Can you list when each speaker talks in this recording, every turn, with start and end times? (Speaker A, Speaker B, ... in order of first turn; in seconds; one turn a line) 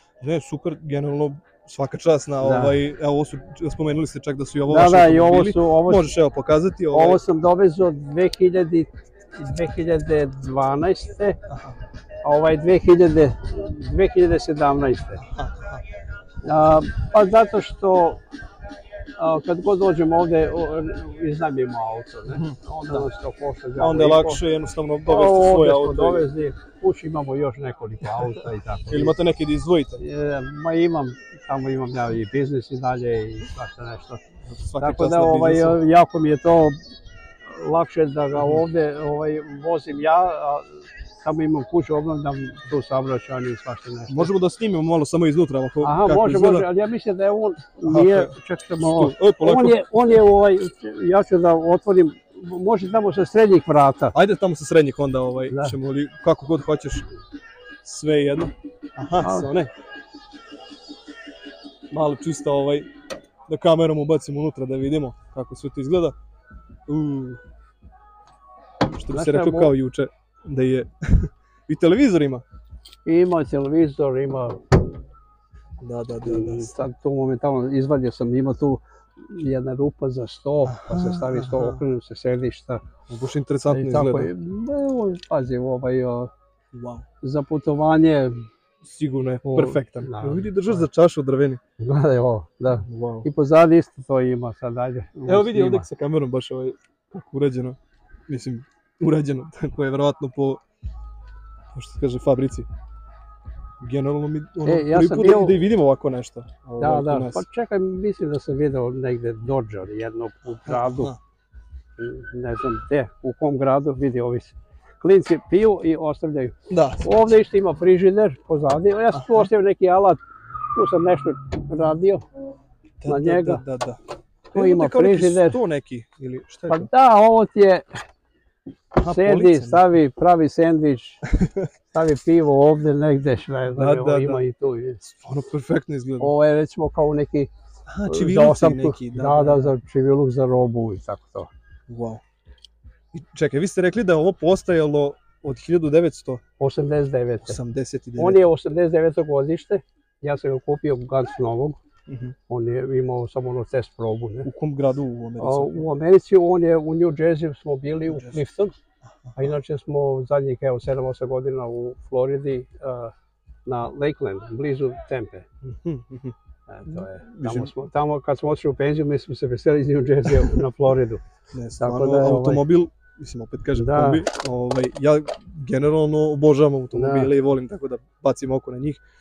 Speaker A: 0.2-7.2
Speaker B: 2.4-2.8
Speaker B: 4.7-6.1
Speaker B: 6.9-11.4
Speaker A: 11.5-11.8
Speaker B: 12.2-15.2
Speaker A: 15.3-15.8
Speaker B: 16.4-18.2
Speaker B: 19.2-24.4
Speaker A: 22.3-23.1
Speaker A: 23.8-26.2
Speaker B: 25.1-29.2
Speaker A: 28.9-30.0
Speaker B: 30.0-34.2
Speaker A: 34.5-35.8
Speaker B: 34.8-36.7
Speaker B: 37.5-40.7
Speaker A: 38.4-38.6
Speaker B: 41.2-44.3
Speaker A: 44.1-46.7
Speaker B: 45.8-54.1
Speaker A: 47.9-49.9
Speaker A: 54.1-57.1
Speaker A: 57.8-59.7
Speaker B: 59.2-59.5
Speaker A: 61.9-62.9
Speaker A: 63.5-66.1
Speaker A: 66.9-67.4
Speaker A: 68.9-72.4
Speaker B: 69.1-69.7
Speaker B: 73.0-74.6
Speaker A: 75.8-76.7
Speaker B: 76.2-82.8
Speaker A: 80.7-81.8
Speaker A: 83.1-84.3
Speaker B: 83.7-86.3
Speaker A: 86.7-87.0
Speaker B: 87.2-88.5
Speaker A: 88.8-91.6
Speaker B: 89.5-90.8
Speaker B: 91.8-95.8
Speaker A: 92.9-93.3
Speaker A: 95.3-97.8
Speaker A: 98.3-100.6
Speaker A: 101.7-102.7
Speaker A: 103.8-107.4
Speaker B: 104.6-105.6
Speaker B: 106.8-111.1
Speaker A: 110.7-111.2
Speaker B: 112.0-120.2
Speaker A: 116.7-117.3
Speaker A: 119.1-119.5
Speaker B: 120.7-122.2
Speaker A: 123.0-124.0
Speaker B: 123.0-123.6
Speaker B: 124.5-125.6
Speaker A: 124.5-126.9
Speaker B: 126.7-127.8
Speaker A: 128.9-129.8
Speaker B: 129.0-131.2
Speaker A: 131.3-131.7
Speaker B: 131.9-135.0
Speaker A: 133.7-134.4
Speaker A: 135.0-136.3
Speaker B: 136.2-137.5
Speaker A: 137.9-139.7
Speaker B: 138.1-141.5
Speaker A: 141.9-142.2
Speaker A: 143.1-146.4
Speaker B: 146.6-147.6
Speaker A: 147.4-148.4
Speaker B: 148.2-151.8
Speaker A: 152.1-152.3
Speaker B: 152.5-154.5
Speaker A: 154.4-155.8
Speaker B: 155.4-158.7
Speaker A: 158.1-158.4
Speaker A: 159.3-159.5
Speaker B: 159.4-163.1
Speaker B: 163.6-165.4
Speaker A: 165.6-166.3
Speaker B: 166.7-171.2
Speaker A: 166.9-167.7
Speaker A: 171.5-179.0
Speaker B: 171.8-172.6
Speaker B: 173.7-174.2
Speaker B: 176.9-177.3